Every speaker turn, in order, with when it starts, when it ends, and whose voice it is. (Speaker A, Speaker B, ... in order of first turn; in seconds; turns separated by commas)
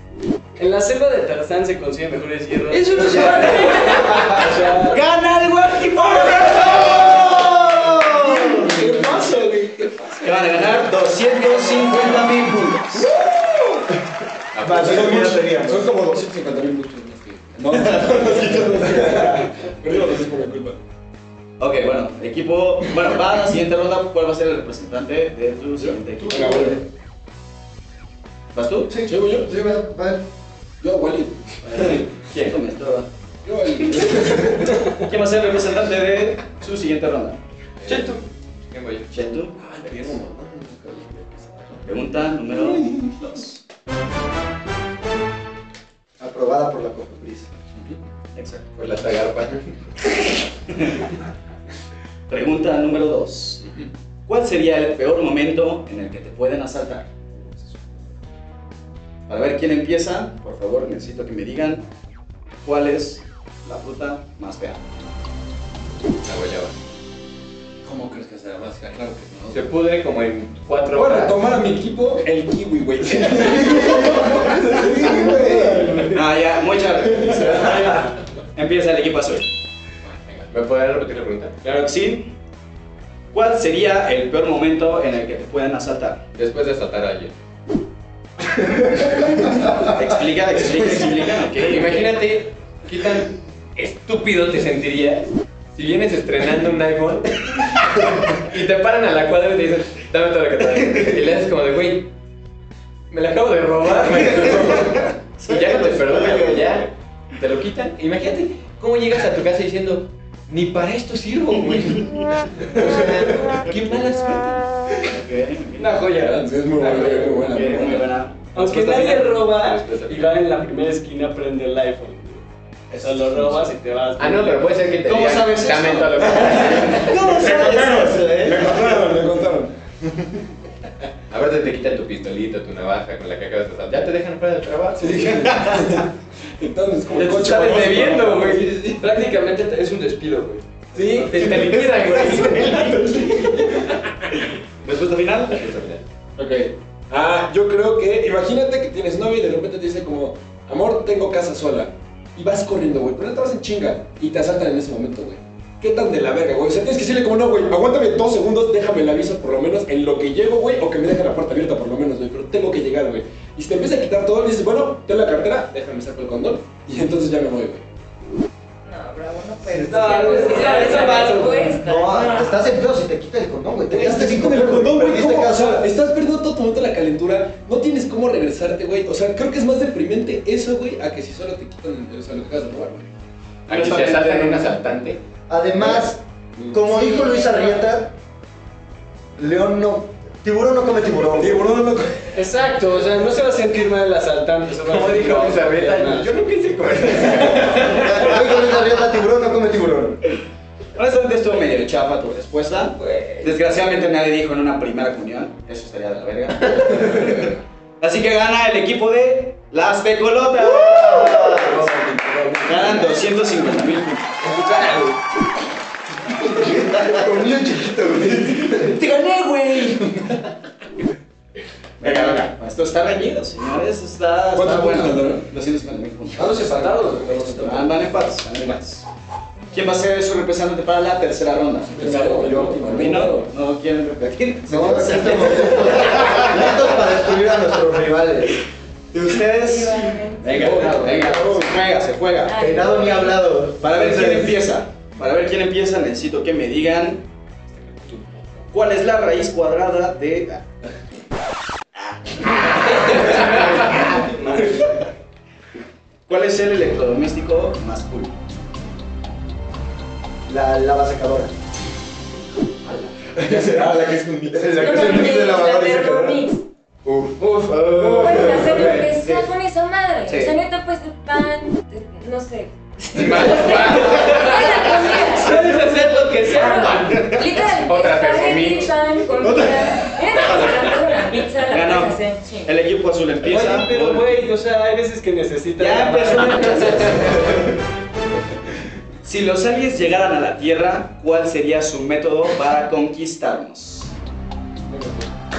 Speaker A: 0.6-5.0, Speaker B: 2.7-4.6, Speaker C: 4.8-8.8, Speaker D: 6.0-11.0, Speaker A: 9.1-9.5, Speaker C: 10.2-13.1, Speaker A: 11.5-11.9, Speaker D: 12.0-12.4, Speaker D: 12.9-14.0, Speaker E: 14.5-15.2, Speaker F: 14.6-16.2, Speaker D: 14.7-20.8, Speaker C: 17.7-19.1, Speaker F: 19.0-19.4, Speaker C: 21.6-26.8, Speaker D: 25.8-26.8, Speaker C: 28.5-28.9, Speaker F: 28.9-30.2, Speaker D: 29.1-29.9, Speaker D: 30.8-32.1, Speaker C: 31.6-33.1, Speaker E: 32.3-32.6, Speaker D: 33.5-34.9, Speaker C: 35.0-37.4, Speaker B: 37.9-39.1, Speaker C: 39.1-40.0, Speaker D: 39.5-43.3, Speaker C: 41.8-43.6, Speaker F: 46.2-47.5, Speaker C: 48.4-48.7, Speaker E: 48.8-49.7, Speaker C: 50.7-51.0, Speaker C: 52.3-53.6, Speaker C: 54.3-57.1, Speaker C: 59.3-61.9, Speaker C: 62.6-64.8, Speaker E: 66.2-66.8, Speaker D: 67.8-69.6, Speaker E: 69.5-71.4, Speaker D: 70.9-76.2, Speaker F: 74.5-76.0, Speaker C: 76.1-79.5, Speaker D: 77.1-77.9, Speaker E: 80.0-81.6, Speaker C: 81.6-82.3, Speaker C: 83.3-86.2, Speaker E: 86.3-87.3, Speaker C: 89.6-92.2, Speaker E: 91.6-102.1, Speaker E: 103.1-114.8, Speaker C: 104.1-106.8, Speaker C: 112.8-114.0, Speaker C: 115.0-116.1, Speaker B: 115.8-116.5, Speaker D: 116.1-118.1, Speaker C: 116.8-119.3, Speaker A: 118.5-122.5, Speaker E: 119.7-120.4, Speaker D: 122.9-123.7, Speaker A: 123.0-124.8, Speaker E: 124.2-127.4, Speaker C: 125.0-129.1, Speaker D: 126.3-129.7, Speaker E: 131.3-135.2, Speaker D: 135.0-139.0, Speaker C: 135.1-136.1, Speaker B: 137.1-141.6, Speaker D: 140.9-144.0, Speaker E: 141.2-143.7, Speaker C: 142.4-142.9, Speaker C: 144.8-145.7, Speaker E: 145.5-146.0, Speaker D: 146.4-167.8, Speaker G: 168.8-172.6, Speaker B: 169.7-171.8, Speaker A: 170.5-171.5, Speaker F: 171.8-175.9, Speaker D: 173.9-183.1, Speaker E: 183.7-185.2, Speaker C: 183.7-184.8, Speaker F: 185.5-188.2, Speaker G: 186.8-187.8, Speaker F: 189.4-191.7, Speaker D: 191.4-192.4, Speaker A: 192.3-196.4, Speaker E: 194.8-198.3, Speaker F: 197.9-200.2, Speaker C: 200.9-207.3, Speaker E: 203.0-203.5, Speaker E: 206.8-207.3, Speaker D: 206.8-207.6, Speaker C: 208.0-211.9, Speaker D: 210.8-213.2, Speaker C: 212.6-214.4, Speaker B: 214.4-215.2, Speaker F: 216.5-219.0, Speaker C: 218.8-220.2, Speaker C: 222.0-229.1, Speaker D: 222.0-222.5, Speaker D: 224.5-225.5, Speaker B: 226.4-227.6, Speaker D: 226.4-227.9, Speaker C: 229.7-237.1, Speaker D: 231.9-233.5, Speaker F: 234.7-238.6, Speaker C: 239.1-242.7, Speaker G: 239.6-240.8, Speaker D: 240.5-241.8, Speaker B: 240.6-241.6, Speaker G: 242.4-243.5, Speaker F: 242.5-244.6, Speaker C: 243.8-247.2, Speaker C: 248.7-250.6, Speaker C: 252.0-254.9, Speaker A: 254.2-254.9, Speaker C: 256.3-258.3, Speaker F: 260.5-261.5, Speaker C: 262.9-263.1, Speaker D: 263.4-265.4, Speaker F: 263.4-263.8, Speaker F: 264.5-266.4, Speaker G: 264.8-266.6, Speaker F: 267.1-267.3, Speaker B: 267.4-267.9, Speaker C: 267.7-268.2, Speaker D: 267.9-269.1, Speaker F: 268.0-269.2, Speaker G: 268.1-275.7, Speaker C: 270.3-270.5, Speaker E: 273.1-274.8, Speaker A: 275.4-277.2, Speaker C: 275.4-277.5, Speaker B: 275.7-276.9, Speaker G: 276.4-282.8, Speaker E: 277.7-279.0, Speaker C: 279.4-280.7, Speaker C: 281.7-284.3, Speaker A: 283.4-287.5, Speaker C: 285.8-287.8, Speaker C: 289.2-294.1, Speaker D: 294.9-295.3